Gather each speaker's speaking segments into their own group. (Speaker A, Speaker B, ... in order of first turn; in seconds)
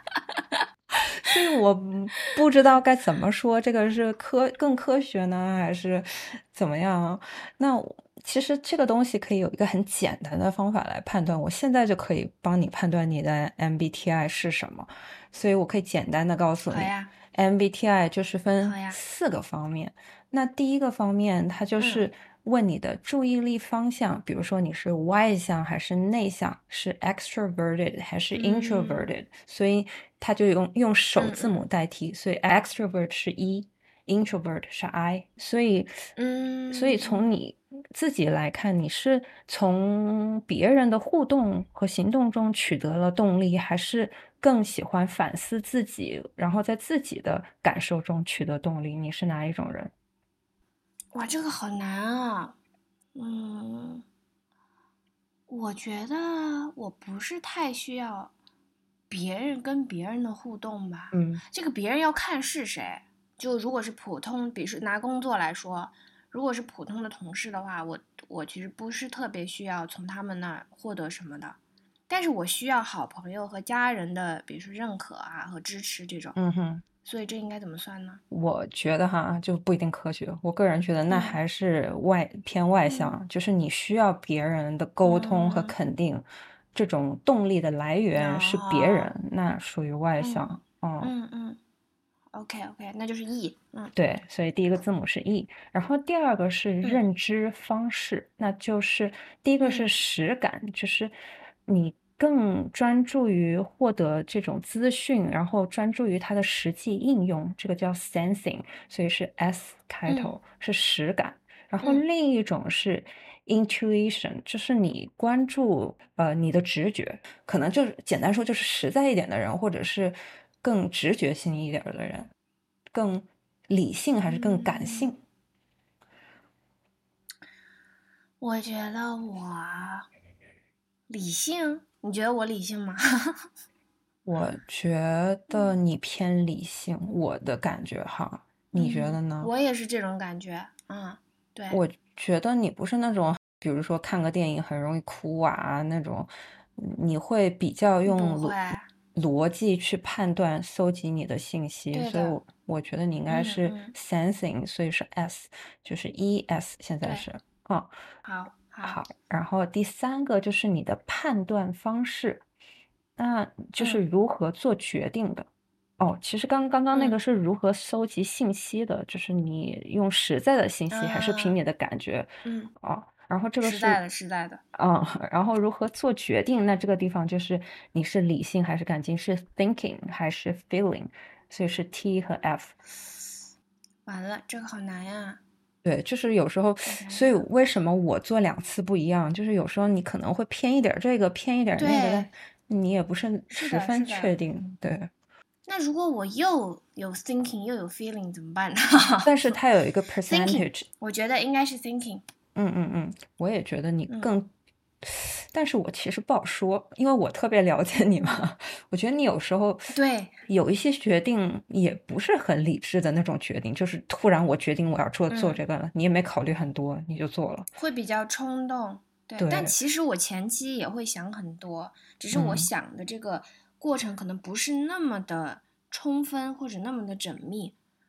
Speaker A: 1.2-36.0, 36.7-49.9, 61.1-61.4, 76.4-76.8, 78.3-91.1, 93.9-101.2, 101.7-122.3, 122.9-125.2, 134.2-139.5, 141.7-148.6, 149.2-157.9, 158.8-162.4, 163.2-165.5, 166.0-174.0, 174.7-182.8, 185.8-195.1, 199.2-200.9, 202.6-209.9, 210.5-217.7, 219.4-219.8, 222.3-222.7
Speaker B: 16.7-17.1, 18.6-19.0, 21.8-22.1, 28.3-29.1, 31.2-31.6, 36.2-37.3, 51.1-52.6, 53.1-54.0, 55.5-58.3, 59.1-71.6, 72.1-76.4, 77.0-78.2, 81.1-81.4, 82.9-83.2, 85.0-85.8, 88.2-89.1, 90.2-91.6, 92.3-93.9, 99.6-100.0, 110.1-110.4, 124.3-125.1, 128.4-130.1, 131.1-133.4, 135.5-135.8, 138.7-141.8, 148.1-148.9, 151.9-152.4, 153.3-153.9, 158.2-159.0, 166.9-167.2, 170.9-171.6, 172.4-172.7, 173.6-174.6, 184.1-185.4, 186.9-187.4, 191.8-192.3, 193.5-194.4, 195.7-199.6, 200.3-202.2, 209.9-210.4, 215.3-215.6, 217.8-227.8